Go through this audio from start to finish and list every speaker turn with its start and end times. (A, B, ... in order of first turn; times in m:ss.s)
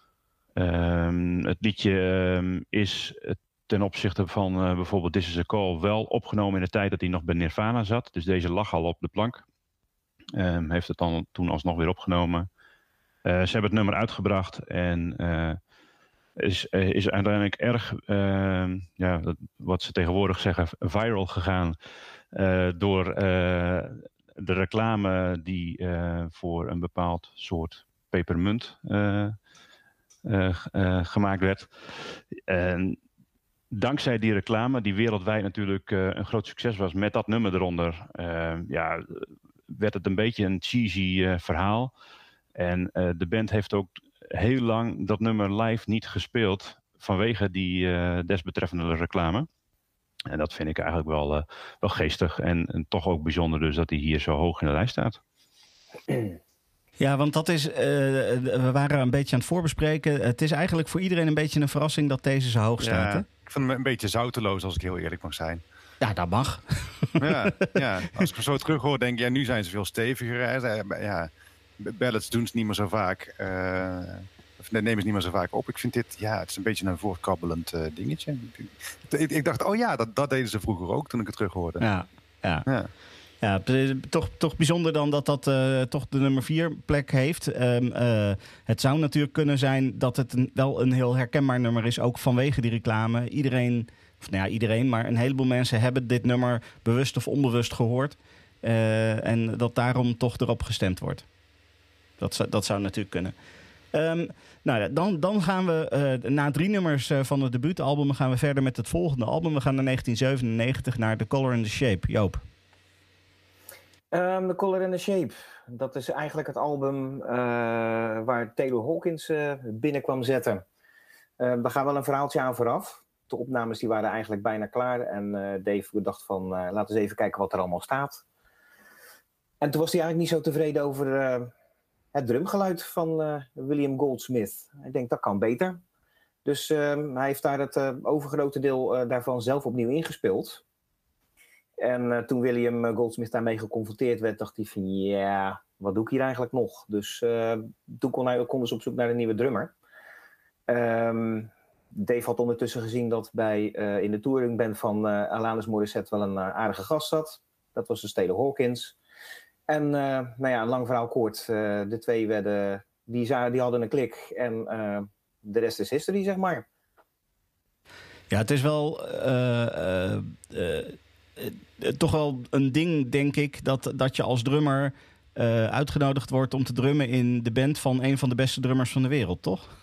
0:00.6-0:09.4 A
0:10.3-0:12.5 A
0:13.2-0:15.6 A
0:16.4-0:21.8 A
0:22.3-0:29.4 A
0:30.2-0:33.0 A
0:33.7-0:41.9 A
0:42.6-0:49.5 A
0:50.3-0:55.2 A
0:57.0-1:03.2 B
1:02.8-1:05.6 C
1:06.0-1:07.6 B
1:07.2-1:21.8 C
1:21.8-1:22.7 B
1:23.4-1:41.3 B
1:42.2-1:43.3 B
1:43.9-1:52.4 B
1:54.1-2:00.6 D
2:01.4-2:08.2 D
2:09.6-2:11.5 D
2:12.1-2:15.8 D
2:16.4-2:20.6 D
2:21.8-2:29.7 D
2:30.7-2:39.0 D
2:39.7-2:46.6 D
2:48.3-2:59.7 B